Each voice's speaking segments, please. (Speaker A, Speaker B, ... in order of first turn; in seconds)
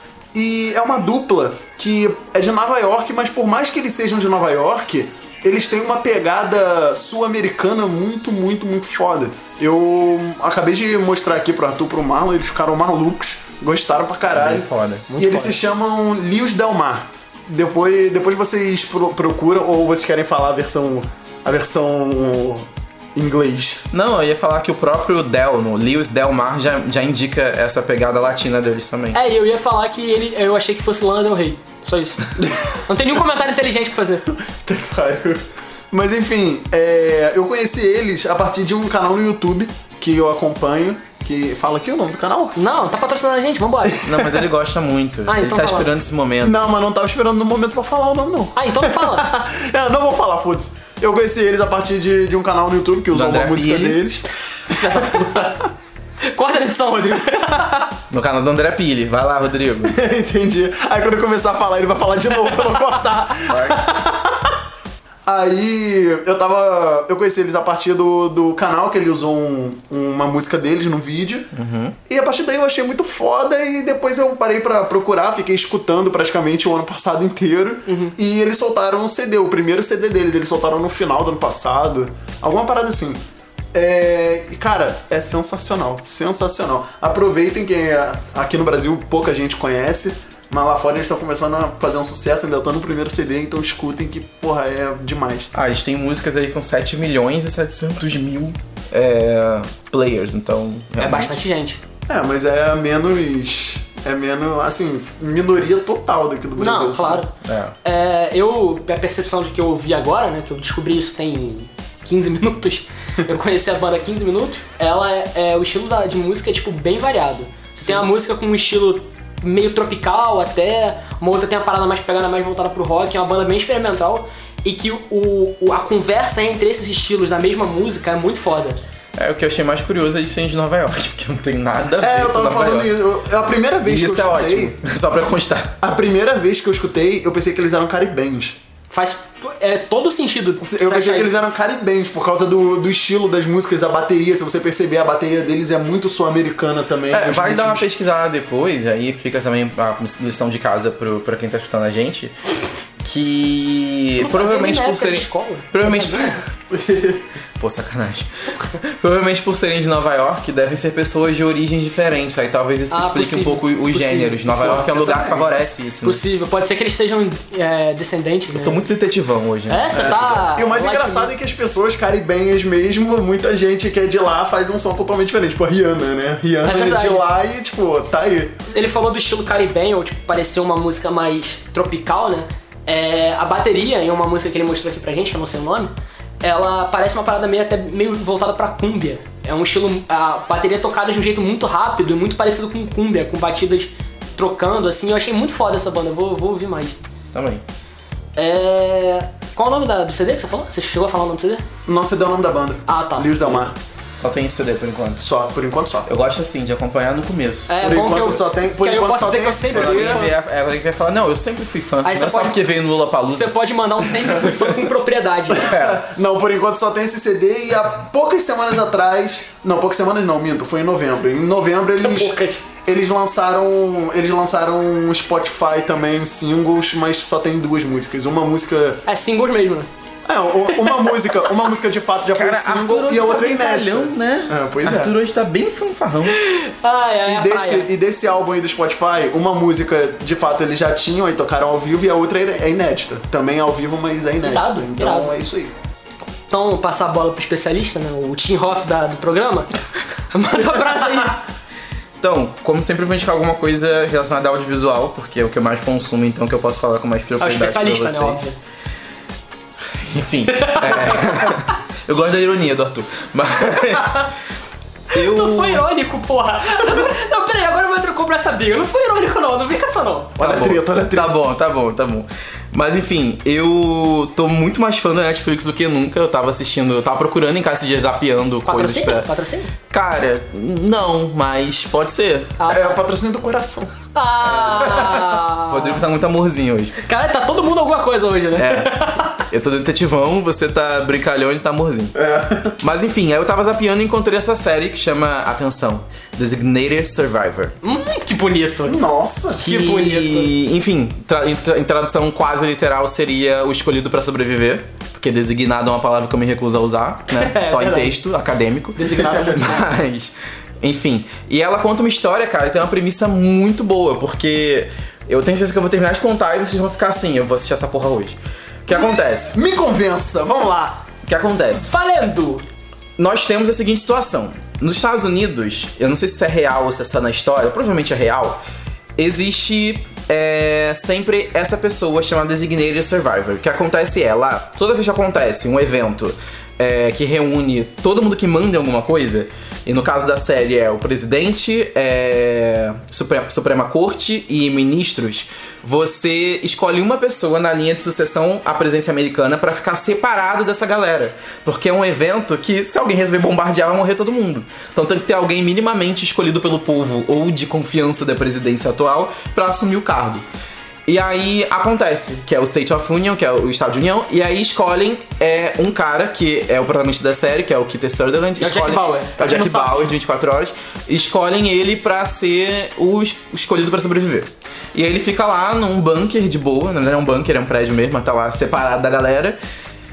Speaker A: 0.3-23.9, 34.4-42.6, 43.8-44.5, 46.4-55.5, 59.8-64.6, 65.2-71.5, 72.1-83.2, 83.7-95.5, 102.1-107.2, 132.0-134.8, 135.8-138.6, 140.6-147.9, 156.7-157.2, 164.5-165.5, 169.9-178.6, 201.9-203.7, 205.2-206.1, 207.8-210.3, 215.7-229.0, 230.2-235.1, 237.3-245.7, 270.4-271.3, 282.7-283.9, 284.8-285.2, 292.1-292.8, 298.9-299.7, 318.9-321.1
Speaker B: 14.3-15.2, 23.9-29.2, 44.0-46.6, 53.1-54.0, 58.1-60.0, 63.5-63.8, 71.5-72.0, 95.5-101.4, 107.4-107.8, 129.2-132.9, 133.8-135.8, 147.1-152.4, 153.0-156.5, 157.6-166.2, 168.5-170.4, 197.3-197.6, 204.2-205.2, 206.1-207.8, 209.6-213.6, 214.2-214.6, 215.6-216.0, 232.3-236.4, 252.2-258.4, 259.9-264.3, 265.1-265.9, 270.4-279.3, 279.9-282.6, 285.7-287.0, 288.6-292.1, 292.8-297.8, 299.6-319.6, 321.3-321.9, 323.2-328.6, 329.2-360.4, 361.1-379.6
Speaker C: 15.2-15.5, 29.1-34.3, 42.6-44.0, 45.3-45.9, 48.6-49.3, 54.7-55.6, 56.2-57.9, 77.9-78.2, 101.0-101.8, 106.6-107.3, 107.8-128.8, 138.9-141.4, 154.2-156.4, 162.9-165.1, 166.0-168.9, 169.7-171.3, 176.6-177.2, 178.7-197.0, 198.4-201.7, 202.9-203.7, 207.7-210.3, 212.0-212.6, 213.3-215.7, 222.0-222.7, 229.1-229.9, 230.7-231.2, 236.3-237.9, 244.4-245.4, 246.5-249.7, 250.3-251.4, 257.4-258.6, 260.5-261.2, 265.1-270.4, 278.7-279.7, 282.6-283.0, 284.1-286.0, 287.0-289.4, 297.8-299.0, 299.6-300.5, 307.3-308.1, 309.0-309.9, 321.7-322.6, 368.6-370.1